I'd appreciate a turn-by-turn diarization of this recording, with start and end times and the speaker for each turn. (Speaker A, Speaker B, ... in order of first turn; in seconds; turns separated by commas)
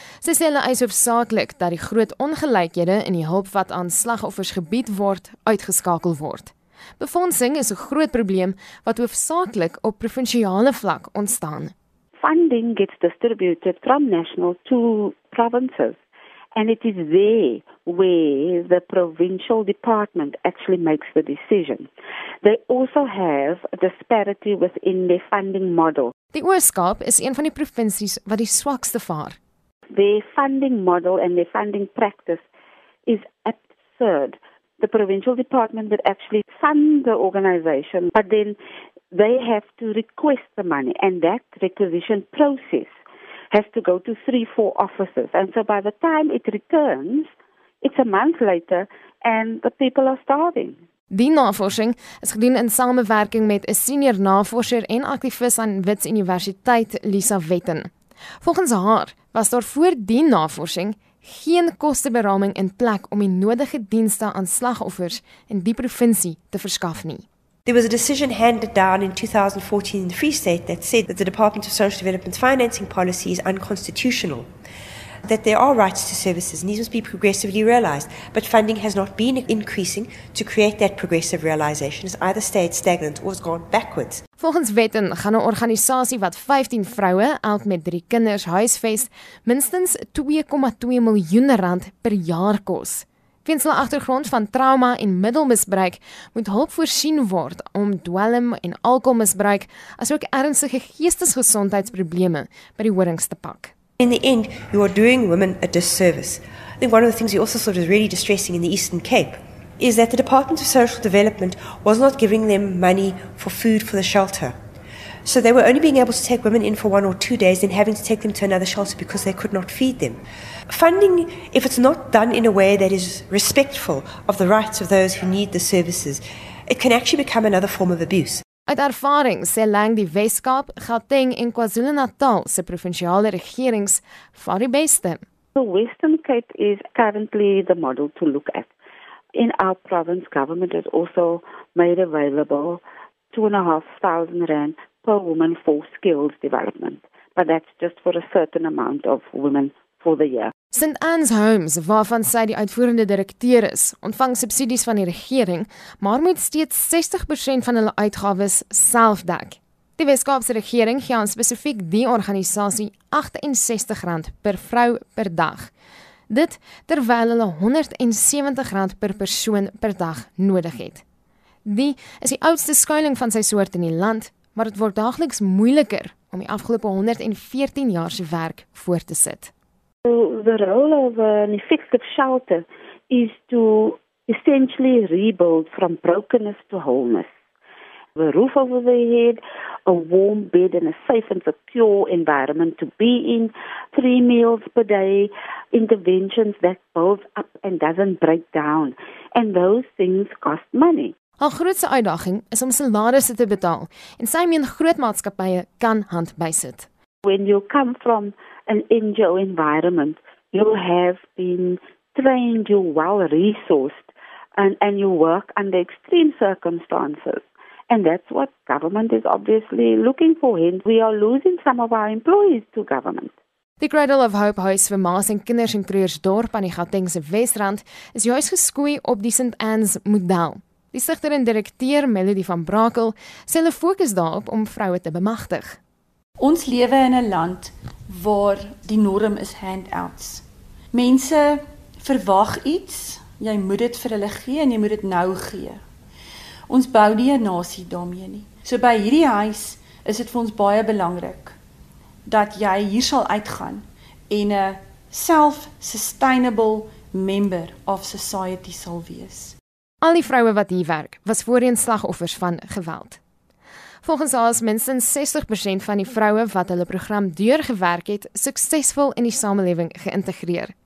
Speaker A: 0.2-11.7, Speaker B: 12.2-16.0, Speaker B: 16.5-21.9, Speaker B: 22.4-26.1, Speaker A: 26.3-29.4, Speaker B: 29.9-32.4, Speaker B: 33.0-38.6, Speaker B: 39.1-42.9, Speaker B: 43.5-47.3, Speaker B: 47.8-50.8, Speaker A: 51.1-57.9, Speaker A: 58.4-67.2, Speaker C: 67.7-74.5, Speaker C: 75.2-84.2, Speaker A: 84.4-103.7, Speaker C: 104.0-114.5, Speaker C: 115.2-128.4, Speaker A: 128.7-135.2, Speaker B: 135.6-138.7, Speaker B: 139.3-150.5, Speaker A: 150.7-165.7, Speaker A: 166.3-171.0, Speaker A: 171.7-179.5, Speaker B: 180.1-187.3, Speaker B: 188.2-201.1, Speaker A: 201.4-206.9, Speaker B: 207.2-223.3, Speaker A: 223.8-235.8, Speaker D: 236.4-245.8, Speaker D: 246.7-251.6, Speaker D: 252.2-259.6, Speaker A: 260.0-263.2, Speaker A: 264.0-270.7